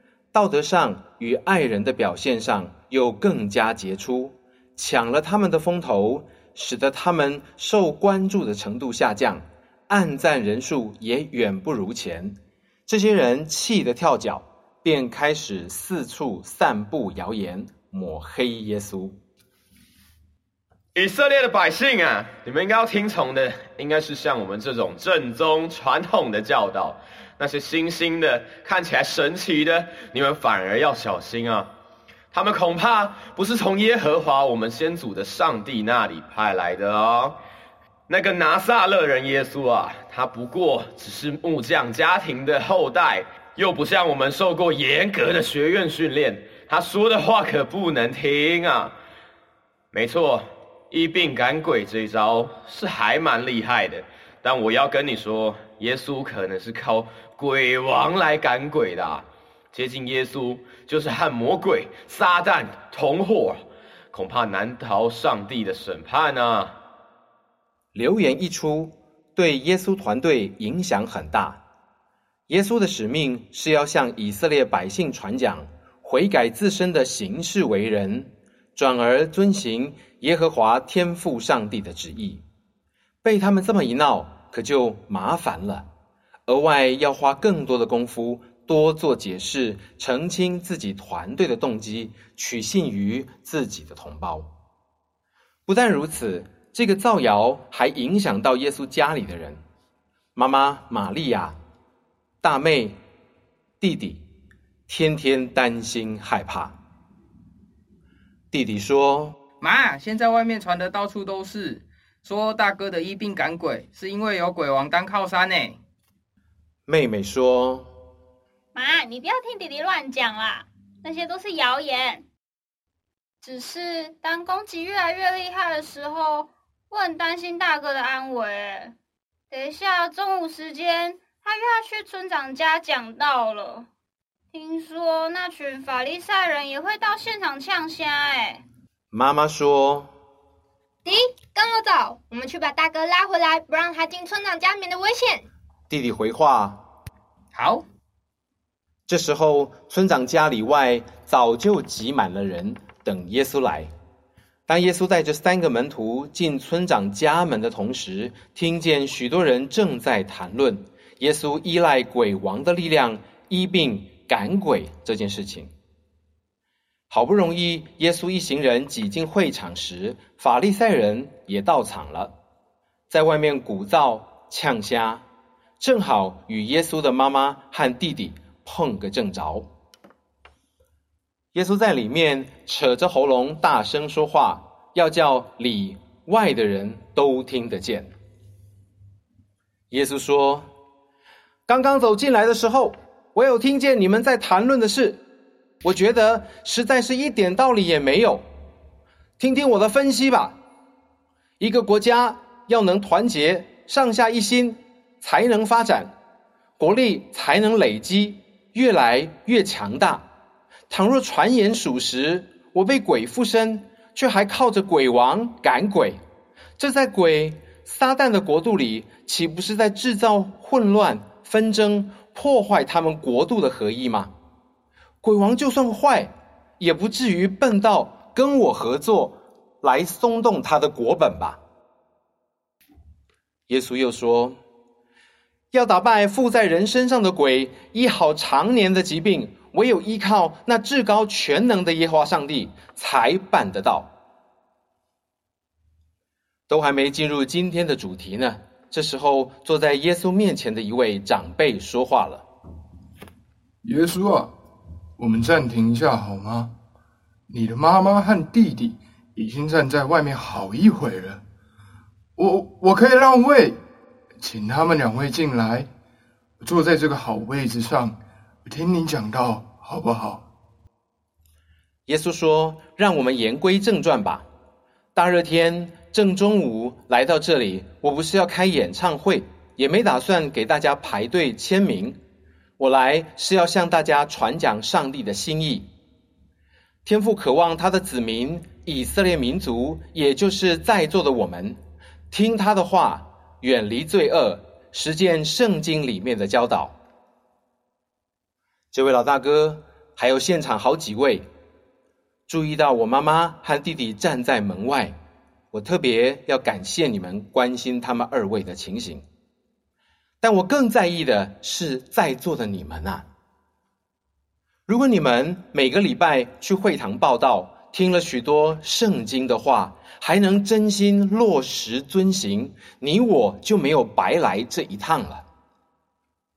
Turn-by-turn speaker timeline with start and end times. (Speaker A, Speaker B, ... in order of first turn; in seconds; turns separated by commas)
Speaker A: 0.3-12.3, Speaker A: 12.9-19.1, Speaker B: 20.9-31.7, Speaker B: 32.3-37.4, Speaker B: 38.1-48.9, Speaker B: 49.9-66.7, Speaker A: 67.9-71.6, Speaker A: 72.5-82.4, Speaker A: 83.2-85.9, Speaker A: 86.5-94.5, Speaker A: 95.7-99.6, Speaker A: 100.3-101.5, Speaker A: 102.4-103.0, Speaker A: 103.8-104.2, Speaker A: 104.9-106.8, Speaker A: 108.5-109.4, Speaker C: 109.6-115.8, Speaker A: 116.9-117.9, Speaker D: 118.7-122.2, Speaker D: 123.4-128.9, Speaker D: 129.5-133.9, Speaker D: 134.5-138.6, Speaker A: 139.1-140.1, Speaker E: 141.0-145.4, Speaker A: 145.9-146.8, Speaker C: 147.5-147.8, Speaker A: 149.1-153.9, Speaker A: 154.7-165.7, Speaker A: 167.1-172.3, Speaker A: 173.1-175.2, Speaker A: 175.8-179.7, Speaker A: 181.5-188.1, Speaker A: 189.9-190.7, Speaker A: 191.7-195.2, Speaker A: 195.8-198.4, Speaker A: 199.4-200.6, Speaker A: 201.6-206.1, Speaker A: 206.8-210.2, Speaker A: 210.9-216.2, Speaker A: 216.8-224.3, Speaker A: 225.2-231.6, Speaker A: 233.7-234.6, Speaker A: 235.7-244.1, Speaker A: 246.7-252.4, Speaker F: 253.8-254.5, Speaker F: 255.2-256.7, Speaker F: 257.5-261.4, Speaker F: 262.4-263.8, Speaker F: 264.4-265.9, Speaker F: 266.6-270.4, Speaker A: 272.1-274.4, Speaker A: 275.1-282.2, Speaker A: 282.8-285.9, Speaker A: 287.0-291.8, Speaker A: 292.3-297.0, Speaker A: 298.9-301.4, Speaker A: 302.5-305.1, Speaker A: 305.7-309.2, Speaker A: 310.4-313.2, Speaker A: 314.9-325.4